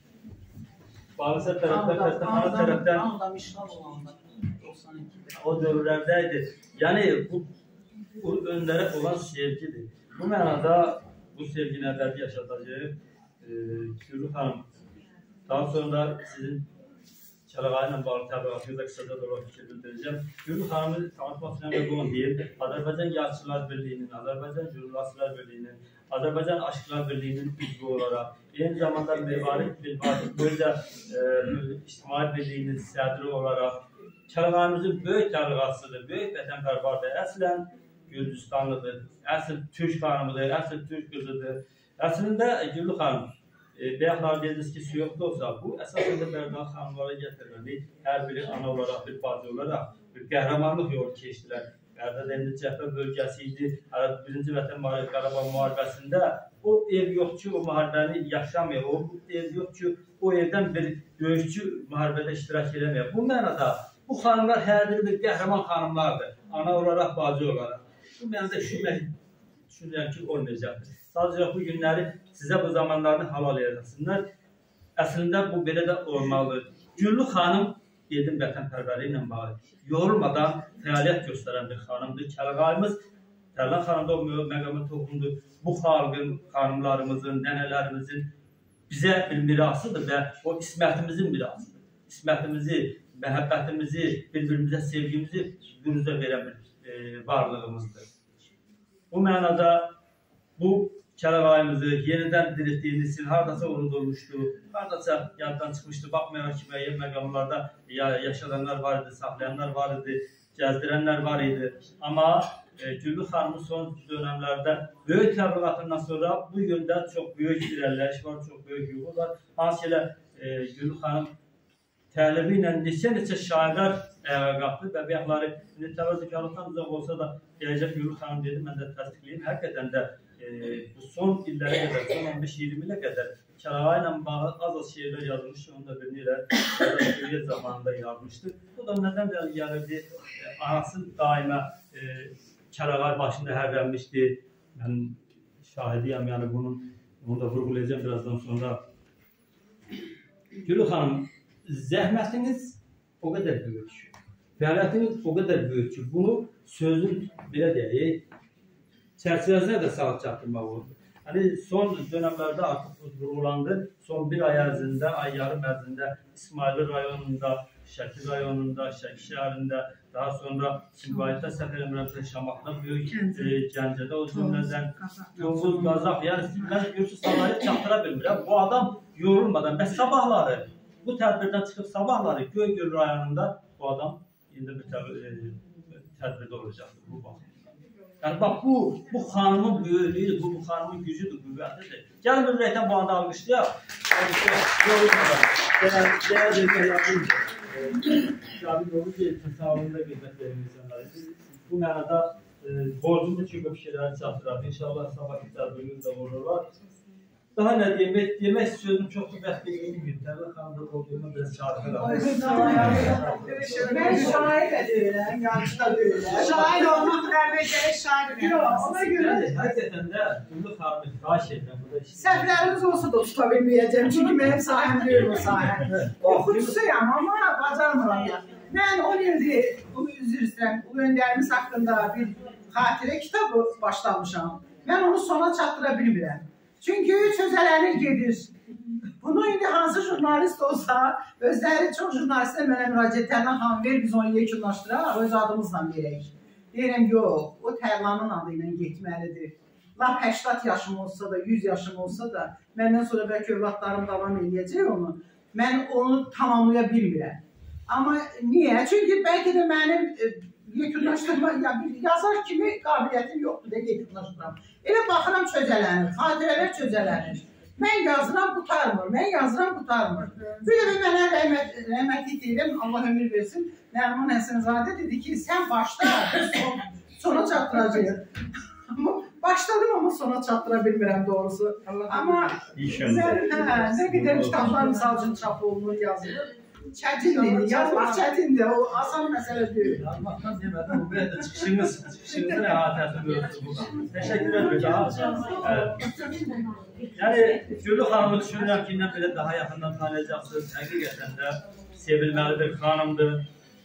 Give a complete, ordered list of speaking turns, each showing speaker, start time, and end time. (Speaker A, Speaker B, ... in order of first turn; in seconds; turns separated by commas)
Speaker A: 1.2-3.0, Speaker B: 1.6-5.3, Speaker A: 5.3-7.5, Speaker A: 8.2-14.7, Speaker A: 15.5-16.7, Speaker A: 17.5-69.1, Speaker A: 69.7-74.2, Speaker A: 75.0-83.0, Speaker A: 83.5-88.3, Speaker A: 88.9-98.1, Speaker A: 99.1-99.9, Speaker A: 100.6-121.3, Speaker A: 122.1-148.8, Speaker A: 150.7-158.2, Speaker A: 159.2-187.4, Speaker C: 173.1-173.5, Speaker C: 174.3-175.9, Speaker A: 188.2-206.7, Speaker A: 207.6-214.5, Speaker B: 212.0-213.2, Speaker C: 212.0-214.5, Speaker B: 213.7-217.2, Speaker C: 216.3-218.9, Speaker B: 218.3-219.8, Speaker A: 218.9-222.8, Speaker B: 222.2-238.5, Speaker A: 225.8-226.7, Speaker B: 239.2-278.3, Speaker C: 270.4-270.7, Speaker B: 278.9-290.0, Speaker A: 282.7-284.8, Speaker A: 289.9-296.0, Speaker B: 294.2-296.3, Speaker A: 297.1-303.4